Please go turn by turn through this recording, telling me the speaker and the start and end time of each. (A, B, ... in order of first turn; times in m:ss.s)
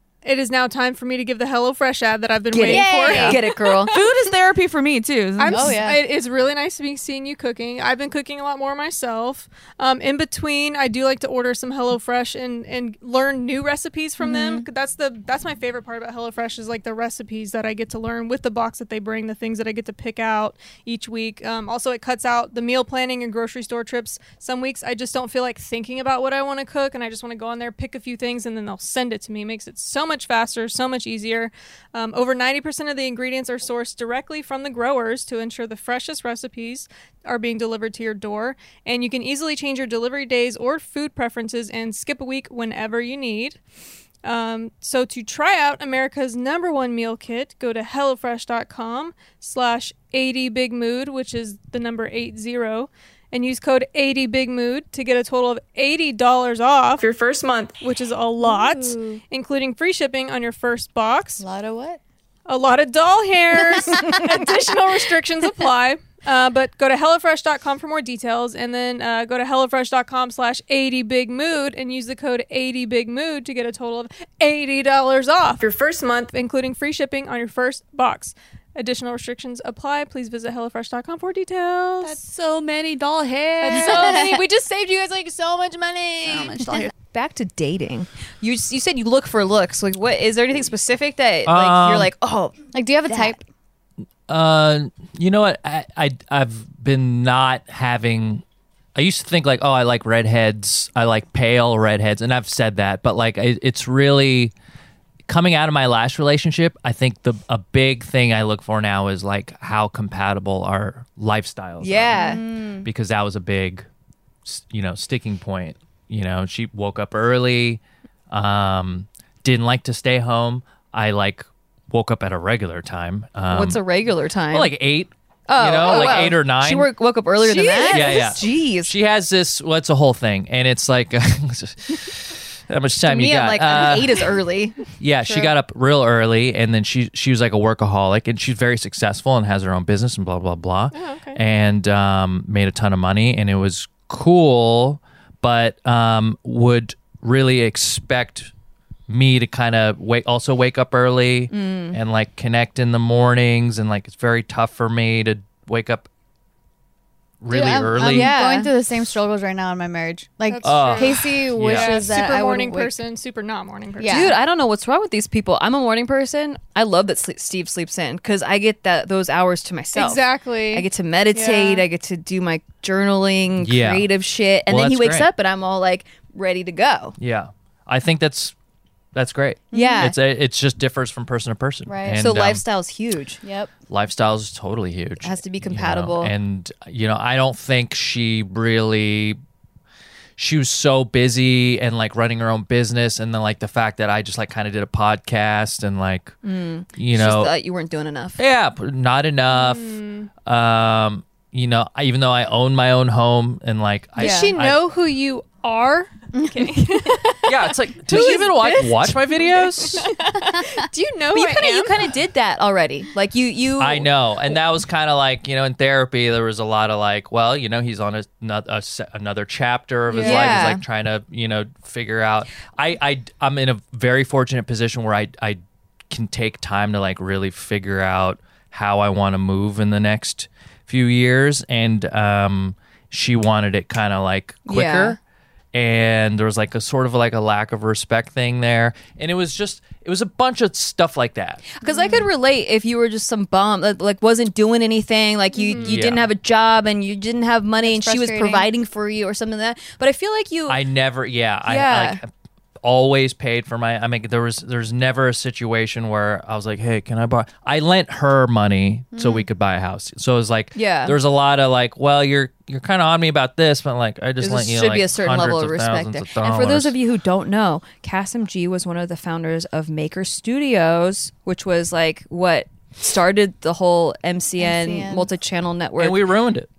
0:00.2-0:04.1 A
0:02.5-0:04.0 B
0:02.6-0:03.4 C
0:03.9-0:05.8 D
0:05.4-0:43.6 A
0:05.5-0:06.0 C
0:44.2-1:01.4 A
0:58.4-0:59.2 C
1:01.4-1:02.0 C
1:02.5-1:22.2 A
1:22.0-1:24.2 D
1:23.6-1:24.3 A
1:23.6-1:33.4 B
1:23.7-1:24.4 C
1:26.2-1:26.9 D
1:31.4-1:32.1 E
1:32.7-1:33.4 C
1:34.3-1:38.4 E
1:38.9-1:44.5 E
1:45.3-1:53.9 E
1:51.8-1:52.4 B
1:52.1-1:52.9 C
1:54.4-2:03.8 E
2:03.5-2:04.7 B
2:04.5-2:06.9 E
2:05.5-2:08.9 B
2:07.4-2:08.3 A
2:07.8-2:14.3 E
2:13.1-2:14.8 B
2:15.0-2:28.5 E
2:20.9-2:21.4 A
2:29.1-2:36.1 E
2:31.5-2:32.0 B
2:37.4-2:38.3 E
2:37.5-2:42.9 C
2:38.0-2:38.7 B
2:40.5-2:44.4 A
2:40.6-2:41.9 E
2:44.0-2:44.3 C
2:44.1-2:57.2 B
2:49.9-2:51.8 A
2:53.6-2:54.1 E
2:54.7-2:55.3 E
2:57.2-2:58.5 E
2:59.1-3:02.6 E
2:59.7-3:00.1 C
2:59.7-3:00.1 B
3:01.8-3:02.2 C
3:02.1-3:03.4 B
3:03.4-3:03.7 C
3:03.9-3:09.4 E
3:05.2-3:06.3 B
3:10.4-3:16.3 E
3:16.4-3:18.4 B
3:17.0-3:17.5 E
3:18.4-3:24.8 E
3:19.5-3:20.3 A
3:24.2-3:27.5 A
3:24.2-3:24.6 B
3:26.4-3:26.8 C
3:26.6-3:27.5 B
3:27.4-3:30.1 E
3:28.1-3:29.2 B
3:28.1-3:32.0 A
3:30.2-3:30.6 B
3:31.3-3:34.1 B
3:33.8-3:55.2 E
3:40.1-3:40.7 A
3:40.2-3:40.8 B
3:54.6-3:55.2 B
3:55.7-4:01.6 E
4:01.7-4:10.8 B
4:01.8-4:02.2 C
4:05.6-4:06.0 A
4:05.8-4:06.3 E
4:07.8-4:08.7 C
4:10.7-4:12.3 E
4:11.6-4:12.2 B
4:12.8-4:26.9 E
4:19.1-4:19.4 C
4:20.7-4:21.2 B
4:24.4-4:36.2 B
4:34.6-4:35.3 C
4:36.0-4:36.7 E